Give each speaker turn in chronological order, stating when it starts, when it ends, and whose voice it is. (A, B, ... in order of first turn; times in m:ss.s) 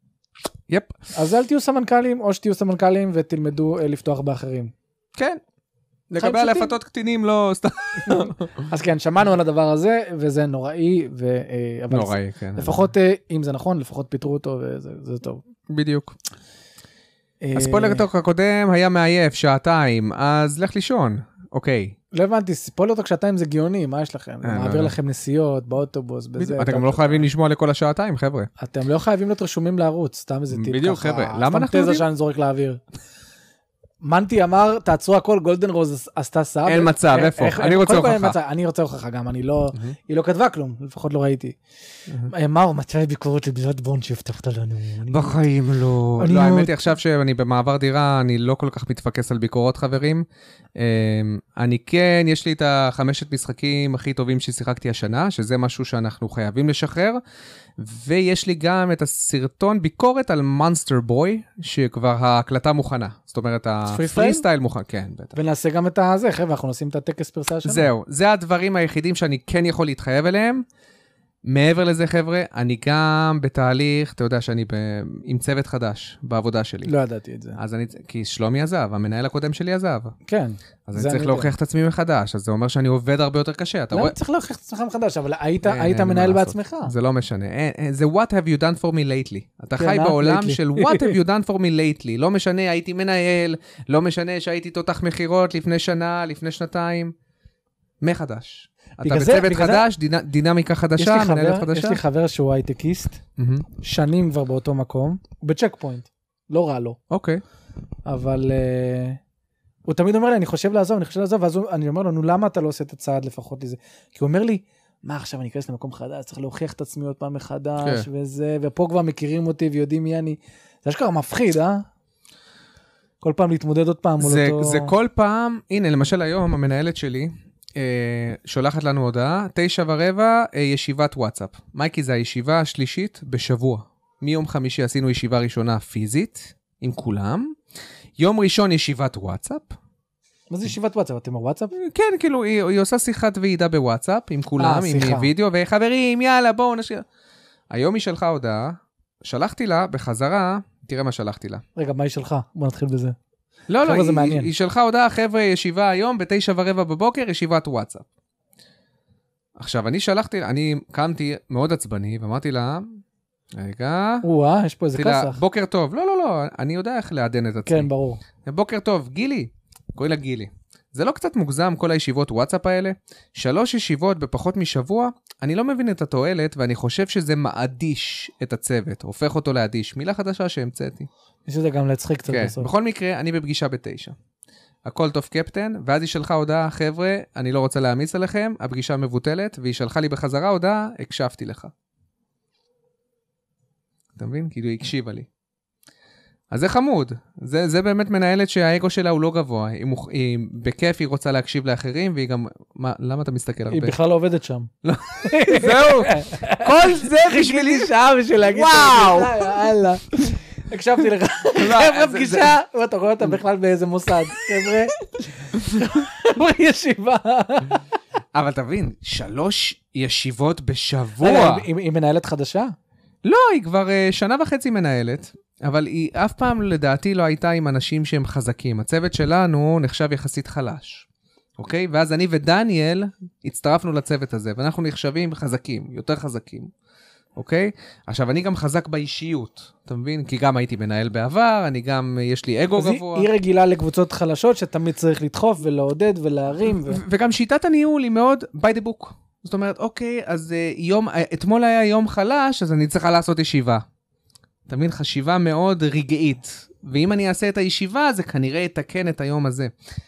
0:00.7-0:01.0 A
0:01.1-0:04.7 B
0:05.2-0:05.4 A
0:06.1-0:08.6 A
0:06.2-0:06.8 B
0:08.0-0:15.4 B
0:11.9-0:12.9 A
0:15.7-0:16.2 A
0:17.4-0:18.1 B
0:17.6-0:22.0 A
0:22.1-0:27.3 B
0:24.4-0:24.9 A
0:26.4-0:28.5 A
0:28.6-0:32.8 B
0:30.5-0:32.1 A
0:34.0-0:41.6 B
0:36.7-0:38.4 A
0:42.3-0:45.4 B
0:45.1-0:50.2 A
0:46.2-0:46.8 B
0:50.8-0:57.2 A
0:57.8-1:05.4 A
1:03.9-1:04.4 B
1:05.3-1:07.9 B
1:07.6-1:10.6 A
1:11.4-1:16.9 A
1:16.8-1:17.6 B
1:17.6-1:20.1 A
1:20.3-1:21.5 B
1:20.9-1:24.1 A
1:23.9-1:26.9 B
1:25.6-1:37.1 A
1:29.8-1:31.2 B
1:38.0-1:42.0 A
1:39.0-1:39.9 B
1:41.0-1:43.2 B
1:43.4-1:43.7 A
1:43.8-1:47.0 B
1:47.1-1:47.4 A
1:48.1-1:49.2 B
1:49.9-2:01.8 B
2:03.2-2:04.9 B
2:04.2-2:17.6 A
2:18.2-2:19.8 A
2:20.5-2:21.7 B
2:21.8-2:27.0 A
2:24.6-2:25.3 B
2:27.7-2:31.6 A
2:31.8-2:33.2 B
2:33.7-2:38.1 A
2:33.8-2:34.5 B
2:39.6-2:43.0 A
2:43.5-2:44.2 A
2:44.2-2:45.4 B
2:45.0-2:47.9 A
2:47.7-2:48.2 B
2:48.4-3:01.1 A
3:01.5-3:02.7 B
3:02.3-3:04.2 A
3:04.8-3:11.7 A
3:14.2-3:15.3 A
3:16.5-3:24.0 A
3:23.7-3:24.7 B
3:24.8-3:29.6 A
3:25.2-3:37.8 B
3:31.6-3:32.6 A
3:35.6-3:35.9 A
3:38.3-3:41.7 A
3:41.2-3:42.7 B
3:43.2-3:56.7 A
3:57.4-4:03.3 A
4:02.7-4:07.0 B
4:06.7-4:13.8 A
4:14.7-4:19.7 A